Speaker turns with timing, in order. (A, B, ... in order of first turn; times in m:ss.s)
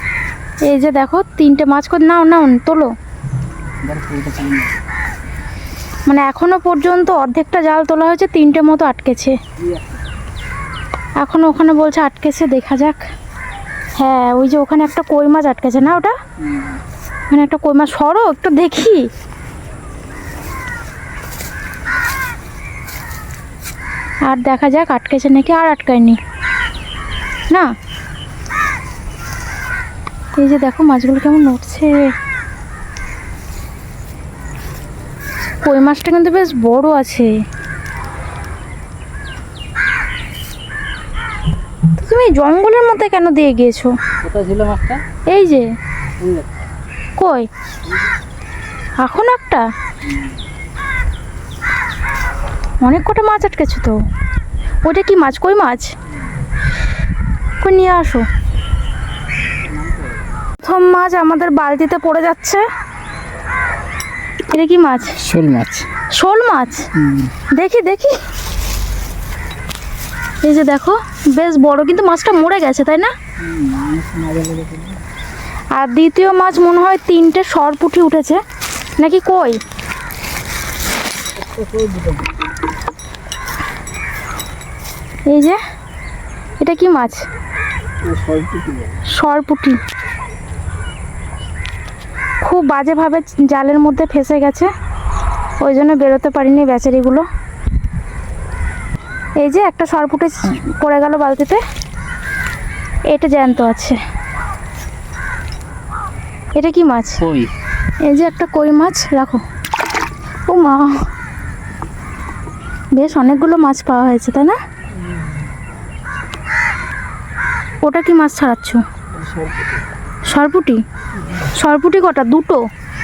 0:00.6-0:02.9 A
0:03.8-0:04.8 B
0:06.1-0:09.4 A
0:09.6-0:09.9 B
0:11.2-0:13.1 A
0:14.0-0:16.2 A
0:16.4-0:16.8 B
0:17.3-0:19.1 A
0:24.2-0:26.2 A
0:30.3-0:32.1 A
0:35.6-0:37.4 A
0:42.0-0:44.0 A
0:44.2-0:45.0 B
0:45.3-0:45.7 A
0:46.2-0:46.5 B
0:47.2-0:47.5 A
0:49.0-0:49.7 A
0:52.8-0:54.0 A
0:54.8-0:56.0 A
0:57.6-0:58.3 A
0:59.7-1:00.0 B
1:00.6-1:02.7 A
1:04.5-1:05.3 A
1:05.2-1:05.9 B
1:06.1-1:06.9 A
1:07.0-1:07.3 B
1:07.5-1:08.2 A
1:10.4-1:13.1 A
1:13.4-1:15.0 B
1:15.7-1:18.4 A
1:19.0-1:19.6 A
1:21.4-1:22.3 B
1:25.3-1:25.6 A
1:26.6-1:27.3 A
1:28.0-1:29.0 B
1:29.0-1:29.8 A
1:32.4-1:34.7 A
1:35.6-1:37.3 A
1:39.4-1:41.6 A
1:43.1-1:44.0 A
1:46.6-1:47.2 A
1:47.2-1:47.5 B
1:48.0-1:49.4 A
1:50.5-1:51.1 A
1:52.9-1:54.6 A
1:57.8-1:58.8 A
1:59.2-1:59.6 B
2:00.2-2:02.7 A